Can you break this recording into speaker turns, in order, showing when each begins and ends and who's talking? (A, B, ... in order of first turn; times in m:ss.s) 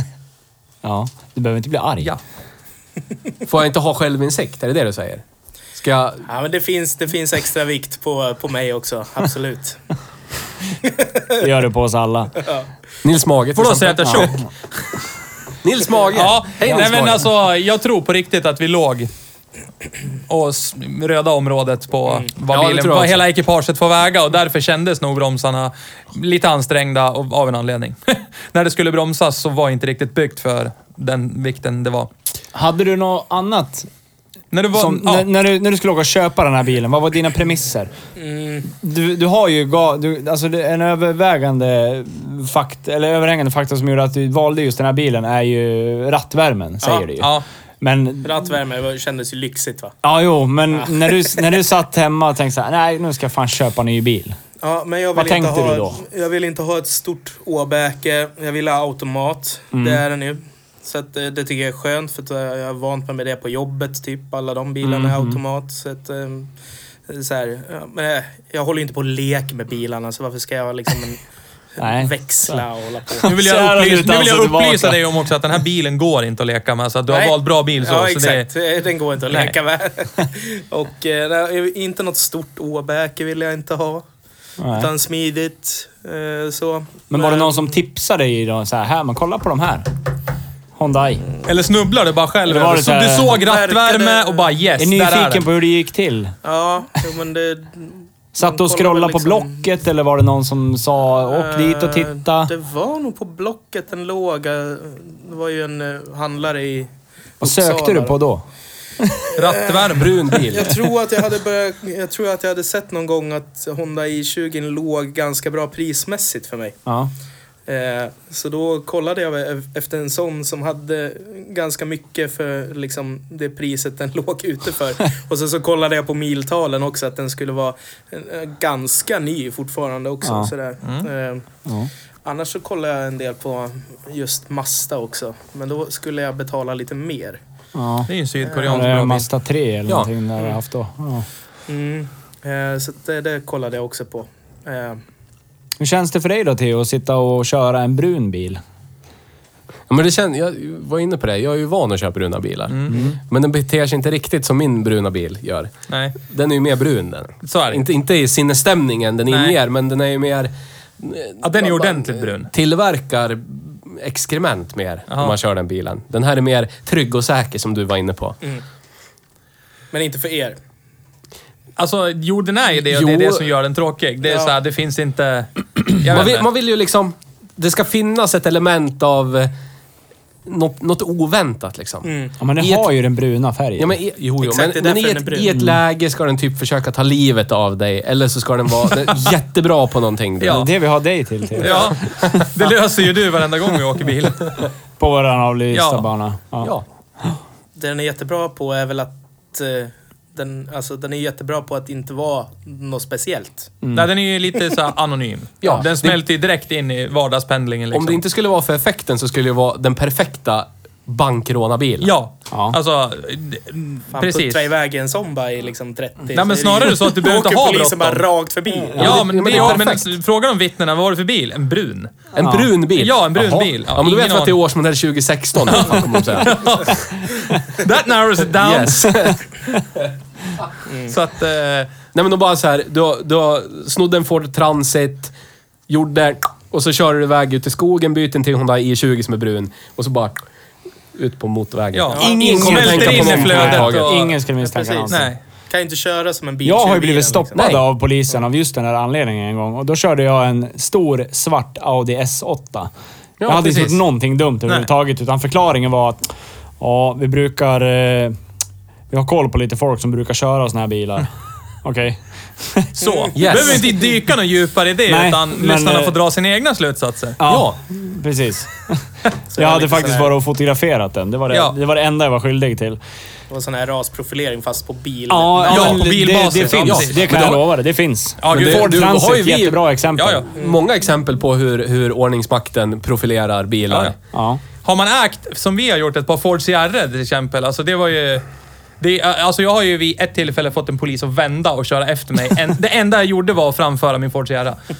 0:00.8-0:02.1 A
0:03.4-0:05.2 B
0:05.8-0:06.3 B
0:06.3-0:09.8 C
0:10.8-0:11.4 C
0:11.4-0:12.4 A
0:12.4-0:12.7 C
0:13.0-0:14.4 B
0:13.6-0:14.4 D
0:14.0-0:14.4 A
0:15.6-0:17.2 B
0:16.1-0:19.1 D
0:20.3-0:32.1 D
0:22.5-0:23.2 B
0:32.5-0:33.9 A
0:34.5-0:35.3 D
0:34.7-0:37.9 A
0:38.2-0:38.7 C
0:38.6-0:48.5 A
0:47.2-0:47.4 D
0:48.2-0:49.9 C
0:50.0-0:54.4 A
0:54.6-1:06.5 C
0:55.1-0:56.0 A
0:59.7-1:00.0 A
1:04.8-1:05.4 A
1:07.1-1:11.2 C
1:11.8-1:13.3 C
1:11.8-1:15.0 A
1:13.2-1:18.5 D
1:17.1-1:24.0 C
1:19.3-1:19.5 D
1:24.6-1:24.9 A
1:24.7-1:27.7 C
1:27.1-1:29.9 A
1:30.8-1:31.3 A
1:31.4-1:35.5 D
1:32.4-1:33.4 A
1:33.3-1:34.5 C
1:34.8-1:36.4 A
1:36.4-1:39.6 C
1:38.3-1:42.5 A
1:41.3-1:48.2 C
1:47.4-1:48.4 A
1:49.0-1:49.4 A
1:49.4-1:50.4 D
1:49.4-1:56.8 C
1:49.9-1:50.9 B
1:56.9-1:57.1 A
1:57.7-2:11.4 C
2:10.2-2:10.5 A
2:12.2-2:17.4 C
2:17.8-2:18.1 A
2:18.1-2:19.3 D
2:18.6-2:21.3 A
2:21.7-2:25.0 C
2:25.8-2:28.6 A
2:29.9-2:48.4 B
2:32.7-2:33.0 D
2:32.9-2:33.2 A
2:35.9-2:36.2 D
2:37.4-2:37.8 D
2:39.3-2:39.6 D
2:41.4-2:42.5 D
2:45.1-2:45.4 D
2:49.9-2:50.6 C
2:51.8-2:56.5 D
2:52.8-2:53.5 B
2:54.2-2:54.5 C
2:56.0-2:59.5 B
3:00.4-3:02.9 B
3:02.0-3:02.3 C
3:02.4-3:04.0 A
3:03.8-3:10.7 B
3:04.4-3:05.6 C
3:05.5-3:05.8 A
3:10.4-3:10.7 D
3:10.4-3:12.5 A
3:11.6-3:14.6 D
3:15.0-3:16.7 A
3:15.7-3:16.1 D
3:17.8-3:23.7 C
3:23.8-3:24.1 A
3:23.9-3:28.2 D
3:25.6-3:26.2 B
3:27.9-3:32.1 B
3:32.0-3:34.7 D
3:32.5-3:32.8 A
3:34.1-3:39.2 C
3:36.3-3:38.2 D
3:38.7-3:39.8 A
3:39.0-3:40.1 B
3:39.0-3:42.3 D
3:42.3-3:46.9 B
3:42.4-3:42.8 A
3:42.9-3:44.6 D
3:43.4-3:43.7 A
3:45.7-3:49.4 D
3:48.5-3:49.5 B
3:50.9-3:51.1 C
3:51.1-3:51.9 D
3:52.1-3:55.3 B
3:55.9-4:00.4 B
4:01.1-4:04.2 B
4:01.9-4:04.4 D
4:02.1-4:03.1 C
4:02.2-4:05.3 A
4:04.6-4:07.7 C
4:05.1-4:05.4 D
4:06.6-4:12.9 A
4:07.6-4:07.9 B
4:13.4-4:14.0 B
4:13.4-4:16.2 A
4:16.8-4:18.4 A
4:19.1-4:21.3 A
4:21.8-4:22.9 A
4:23.0-4:27.4 D
4:23.0-4:23.4 C
4:23.4-4:23.9 B
4:23.6-4:23.9 A
4:25.1-4:26.2 A
4:27.4-4:33.0 A
4:27.4-4:27.8 B
4:29.5-4:30.3 C
4:33.5-4:36.0 C
4:35.3-4:40.5 A
4:35.6-4:37.6 D
4:36.6-4:37.6 B
4:38.4-4:39.0 D
4:38.5-4:39.8 B
4:40.2-4:40.5 D
4:40.5-4:44.1 B
4:43.9-4:44.2 D
4:44.3-4:44.6 A
4:44.8-4:48.4 D
4:49.0-4:54.8 D